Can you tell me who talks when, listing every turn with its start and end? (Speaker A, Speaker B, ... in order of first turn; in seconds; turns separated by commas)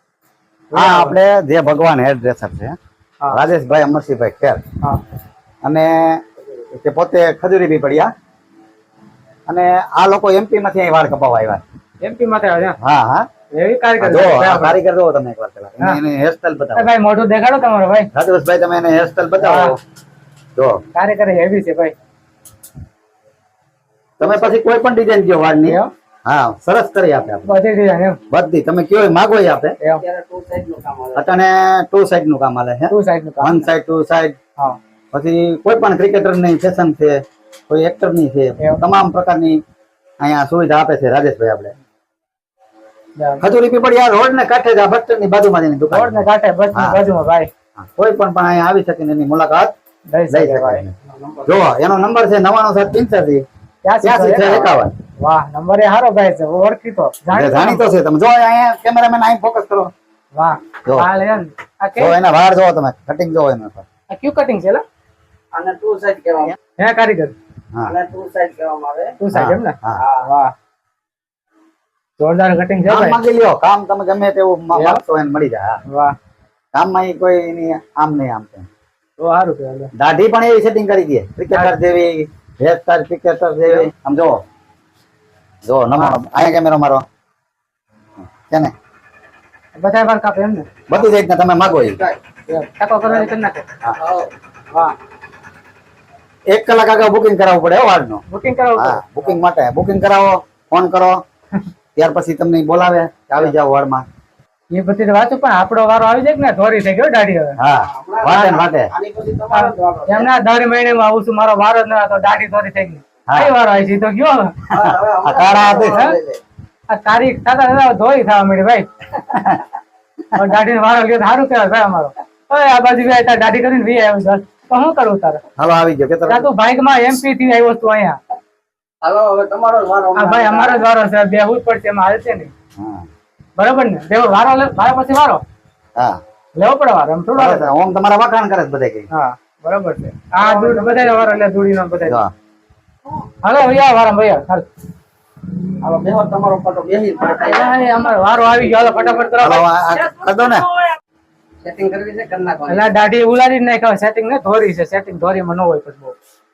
Speaker A: 0.7-1.2, Speaker B: 0.7-2.8, Speaker B: 3.3-4.6, Speaker B: 5.6-6.2, Speaker B: 6.7-8.1, Speaker B: 9.5-11.6, Speaker A: 12.0-12.8, Speaker B: 12.8-13.3, Speaker A: 13.5-14.8, Speaker B: 14.0-16.9, Speaker A: 16.7-18.1, Speaker B: 18.1-19.7, Speaker A: 19.4-19.7, Speaker A: 20.9-21.9, Speaker B: 24.2-27.5, Speaker A: 25.7-25.9, Speaker A: 27.4-28.2, Speaker B: 28.3-29.8, Speaker C: 29.9-31.3, Speaker B: 31.1-34.4, Speaker A: 32.9-33.7, Speaker B: 35.1-39.6, Speaker B: 40.2-41.7, Speaker A: 43.2-43.4, Speaker B: 43.4-47.0, Speaker A: 45.9-47.5, Speaker B: 47.8-49.7, Speaker A: 50.1-50.8, Speaker B: 50.3-50.9, Speaker C: 51.1-51.6, Speaker B: 51.5-53.4, Speaker A: 53.8-57.9, Speaker B: 54.0-54.9, Speaker B: 57.3-59.9, Speaker A: 60.3-62.2, Speaker B: 62.0-63.8, Speaker A: 64.1-64.8, Speaker C: 65.5-66.5, Speaker A: 66.8-67.3, Speaker C: 67.8-69.2, Speaker A: 69.2-70.5, Speaker B: 69.3-70.0, Speaker C: 69.9-70.3, Speaker A: 72.2-73.2, Speaker B: 72.8-75.8, Speaker A: 74.7-75.0, Speaker A: 75.9-76.2, Speaker B: 76.7-78.7, Speaker A: 79.2-79.9, Speaker B: 80.0-84.4, Speaker B: 85.6-87.0, Speaker B: 88.3-88.7, Speaker A: 89.8-90.7, Speaker B: 90.9-92.0, Speaker C: 91.7-92.2, Speaker A: 92.5-93.6, Speaker C: 93.9-94.3, Speaker B: 96.5-98.2, Speaker A: 98.3-99.4, Speaker B: 98.8-101.2, Speaker B: 102.0-104.0, Speaker A: 104.7-107.6, Speaker B: 107.6-108.9, Speaker C: 107.8-110.3, Speaker A: 108.3-108.6, Speaker A: 109.5-114.5, Speaker C: 114.7-116.4, Speaker B: 114.8-116.0, Speaker A: 115.7-116.2, Speaker A: 116.9-118.9, Speaker B: 119.3-119.6, Speaker A: 120.3-125.4, Speaker B: 125.6-126.5, Speaker A: 126.3-128.2, Speaker C: 129.0-130.8, Speaker A: 130.1-132.5, Speaker B: 132.8-133.1, Speaker A: 133.6-135.4, Speaker A: 136.6-137.7, Speaker B: 137.3-139.1, Speaker A: 139.1-142.2, Speaker C: 140.4-141.3, Speaker B: 142.0-142.3, Speaker A: 143.4-144.7, Speaker C: 145.8-147.7, Speaker A: 147.2-149.7, Speaker B: 149.4-150.7, Speaker C: 151.6-152.9, Speaker A: 152.7-156.2